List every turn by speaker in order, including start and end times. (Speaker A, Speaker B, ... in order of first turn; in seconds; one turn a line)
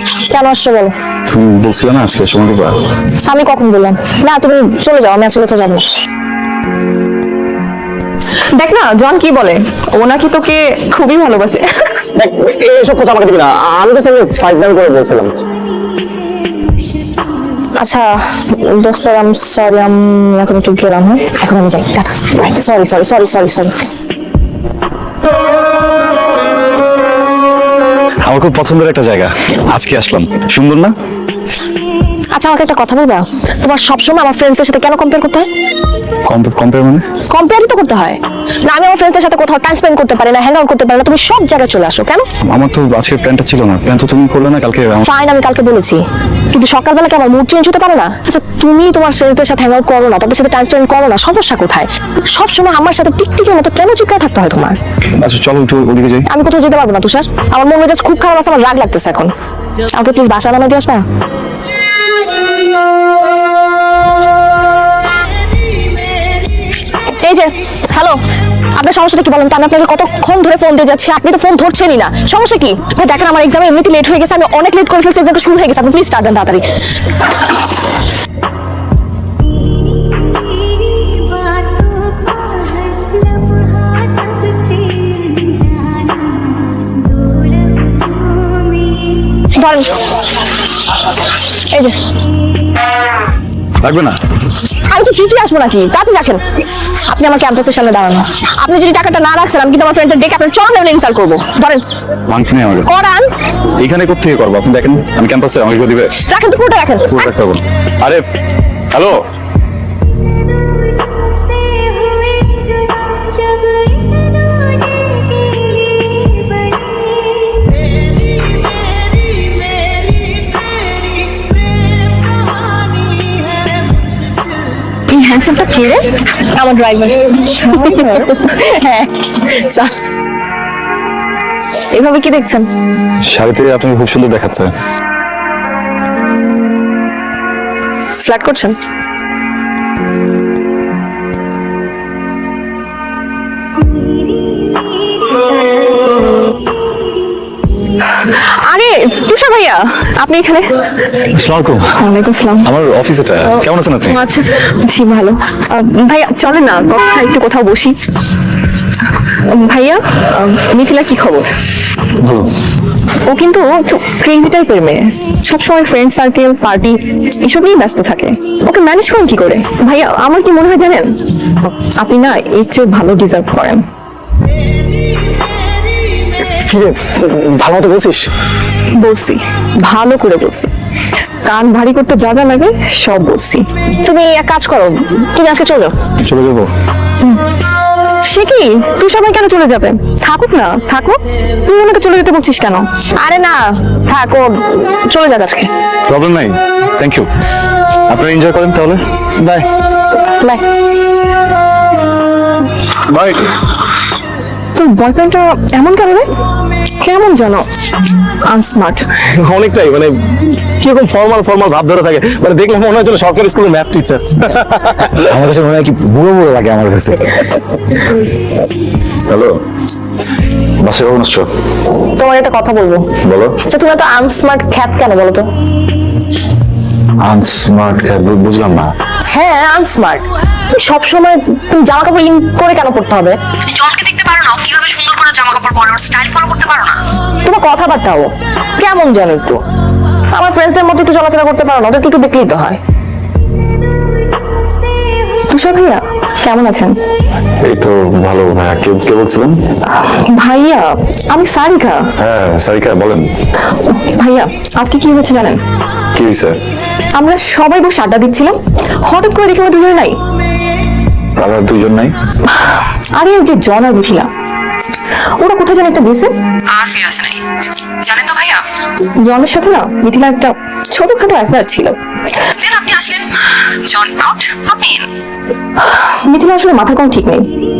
Speaker A: 0.3-0.9
Speaker B: 1.3-2.8
Speaker A: 3.2-5.8
Speaker C: 8.5-11.8
Speaker D: 12.1-15.3
Speaker A: 17.8-23.8
Speaker B: 28.2-30.9
Speaker A: 32.3-35.5
Speaker B: 36.2-37.0
Speaker A: 37.3-42.2
Speaker B: 42.5-45.1
Speaker A: 45.0-54.8
Speaker B: 55.2-56.3
Speaker A: 56.3-59.3
Speaker A: 59.9-61.0
Speaker A: 67.2-68.2
Speaker A: 68.8-76.6
Speaker A: 89.5-90.0
Speaker A: 91.5-91.9
Speaker B: 93.8-94.2
Speaker A: 94.8-96.4
Speaker A: 97.1-101.8
Speaker B: 102.3-102.9
Speaker A: 102.8-103.3
Speaker B: 103.8-106.1
Speaker A: 106.3-107.3
Speaker B: 107.1-108.2
Speaker C: 125.1-126.1
Speaker A: 126.3-129.9
Speaker C: 127.6-128.3
Speaker C: 131.9-132.7
Speaker B: 133.2-134.7
Speaker A: 138.2-138.7
Speaker C: 148.2-150.8
Speaker B: 151.1-152.0
Speaker C: 152.0-152.7
Speaker B: 152.6-154.2
Speaker C: 154.1-158.0
Speaker C: 159.5-161.5
Speaker B: 162.2-162.5
Speaker C: 163.2-173.8
Speaker D: 176.6-178.3
Speaker C: 179.0-180.7
Speaker C: 181.4-183.6
Speaker A: 184.0-185.9
Speaker B: 186.2-186.7
Speaker C: 188.2-192.9
Speaker A: 193.2-195.7
Speaker B: 196.1-197.3
Speaker B: 198.1-199.0
Speaker B: 203.1-203.5
Speaker C: 204.8-206.3
Speaker C: 207.0-207.7
Speaker C: 208.5-209.0
Speaker D: 209.3-215.1
Speaker B: 215.1-217.4
Speaker B: 219.3-219.6
Speaker B: 220.8-221.5
Speaker A: 222.0-223.1
Speaker B: 223.2-223.6
Speaker A: 223.6-225.4
Speaker B: 227.2-228.9
Speaker A: 229.3-236.9
Speaker A: 237.4-239.6
Speaker A: 240.3-242.8
Speaker C: 245.5-246.9
Speaker B: 247.6-249.5
Speaker C: 249.9-252.1
Speaker B: 252.2-253.3
Speaker C: 253.8-255.6
Speaker B: 256.1-256.6
Speaker C: 257.1-260.1
Speaker B: 261.4-262.1
Speaker C: 262.7-264.3
Speaker C: 265.4-266.3
Speaker E: 266.7-267.4
Speaker E: 268.0-268.6
Speaker C: 269.2-271.9
Speaker E: 272.6-275.1
Speaker C: 275.9-277.5